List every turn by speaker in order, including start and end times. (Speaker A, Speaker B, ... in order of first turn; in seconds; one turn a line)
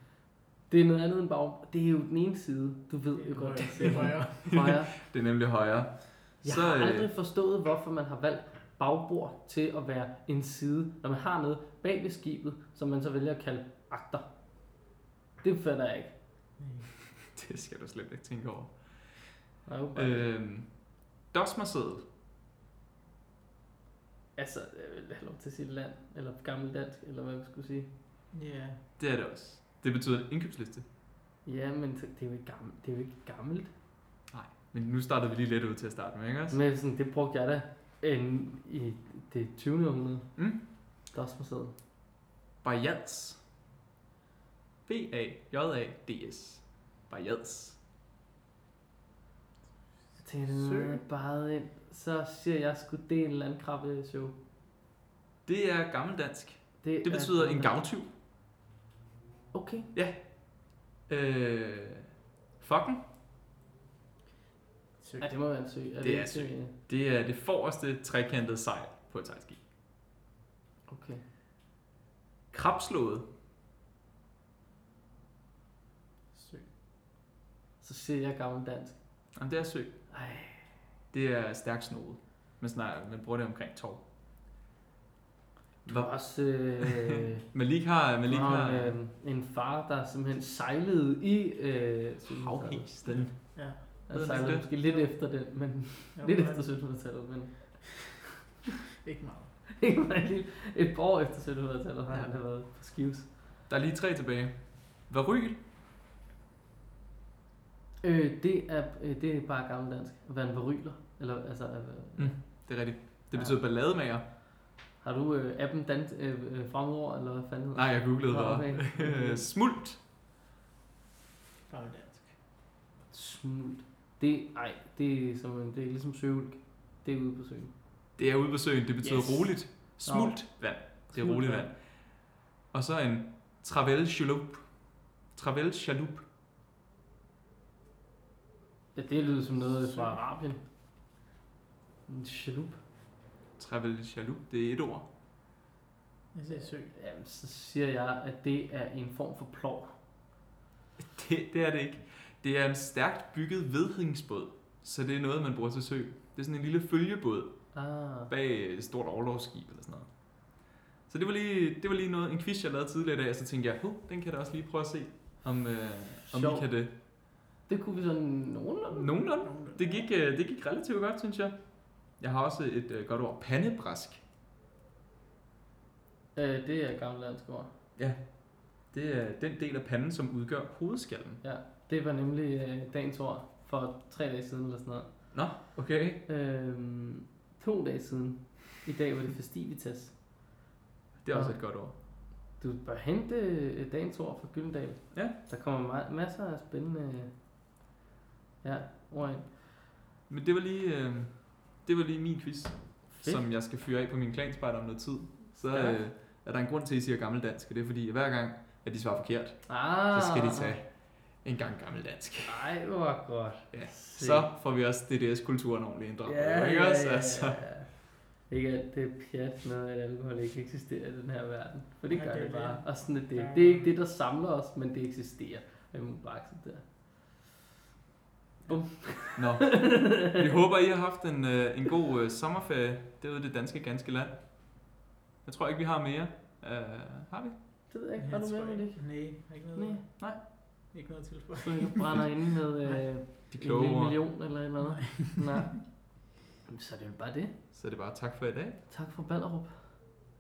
Speaker A: 0.7-4.9
Speaker B: 3.2-4.6
Speaker C: 4.5-7.1
Speaker A: 6.4-14.3
Speaker A: 15.4-16.1
Speaker B: 16.6-16.9
Speaker C: 17.2-22.1
Speaker A: 19.6-20.3
Speaker A: 24.4-27.9
Speaker B: 28.3-28.8
Speaker C: 29.0-30.9
Speaker A: 31.4-33.7
Speaker C: 34.3-36.6
Speaker A: 36.5-41.8
Speaker C: 40.4-40.6
Speaker C: 42.6-43.4
Speaker C: 44.9-47.8
Speaker B: 50.1-51.0
Speaker A: 50.2-54.3
Speaker C: 55.5-58.1
Speaker A: 56.8-57.8
Speaker A: 59.5-59.9
Speaker C: 59.9-63.0
Speaker B: 65.0-65.3
Speaker A: 65.2-66.7
Speaker C: 66.0-69.6
Speaker A: 70.9-71.2
Speaker C: 72.5-73.3
Speaker B: 76.3-76.7
Speaker A: 77.8-79.0
Speaker C: 79.4-80.0
Speaker A: 80.1-80.7
Speaker C: 81.1-84.0
Speaker A: 85.9-87.4
Speaker C: 85.9-89.0
Speaker A: 88.3-92.9
Speaker C: 92.2-94.7
Speaker B: 93.1-94.1
Speaker A: 94.0-98.2
Speaker B: 96.1-96.8
Speaker B: 99.0-99.6
Speaker A: 99.8-103.3
Speaker C: 103.7-105.6
Speaker A: 108.0-112.7
Speaker C: 112.2-114.2
Speaker A: 113.3-113.6
Speaker A: 115.0-119.5
Speaker C: 117.8-120.0
Speaker B: 121.7-122.4
Speaker A: 123.1-127.7
Speaker C: 128.2-136.2
Speaker A: 129.0-131.7
Speaker A: 138.9-140.6
Speaker B: 139.6-140.2
Speaker A: 142.1-142.8
Speaker C: 143.6-145.1
Speaker B: 146.3-146.9
Speaker A: 146.5-149.9
Speaker C: 151.0-157.7
Speaker A: 157.7-158.3
Speaker C: 158.3-160.6
Speaker C: 161.1-166.9
Speaker A: 166.3-166.7
Speaker A: 167.7-169.2
Speaker C: 168.9-174.2
Speaker B: 169.4-170.1
Speaker A: 176.3-177.7
Speaker C: 178.0-181.4
Speaker A: 181.4-185.4
Speaker C: 185.3-186.2
Speaker A: 186.3-190.2
Speaker C: 191.2-191.9
Speaker A: 191.3-192.0
Speaker A: 192.6-197.3
Speaker A: 198.6-199.5
Speaker C: 200.3-212.6
Speaker A: 203.1-203.4
Speaker A: 205.7-206.0
Speaker A: 209.7-210.8
Speaker A: 212.5-214.5
Speaker C: 213.7-217.7
Speaker A: 216.2-227.3
Speaker B: 222.1-223.9
Speaker A: 228.7-230.5
Speaker C: 229.4-237.6
Speaker A: 237.9-240.0
Speaker B: 238.2-243.1
Speaker A: 241.6-247.6
Speaker C: 243.5-244.2
Speaker B: 244.8-245.7
Speaker C: 247.7-248.8
Speaker A: 248.9-250.0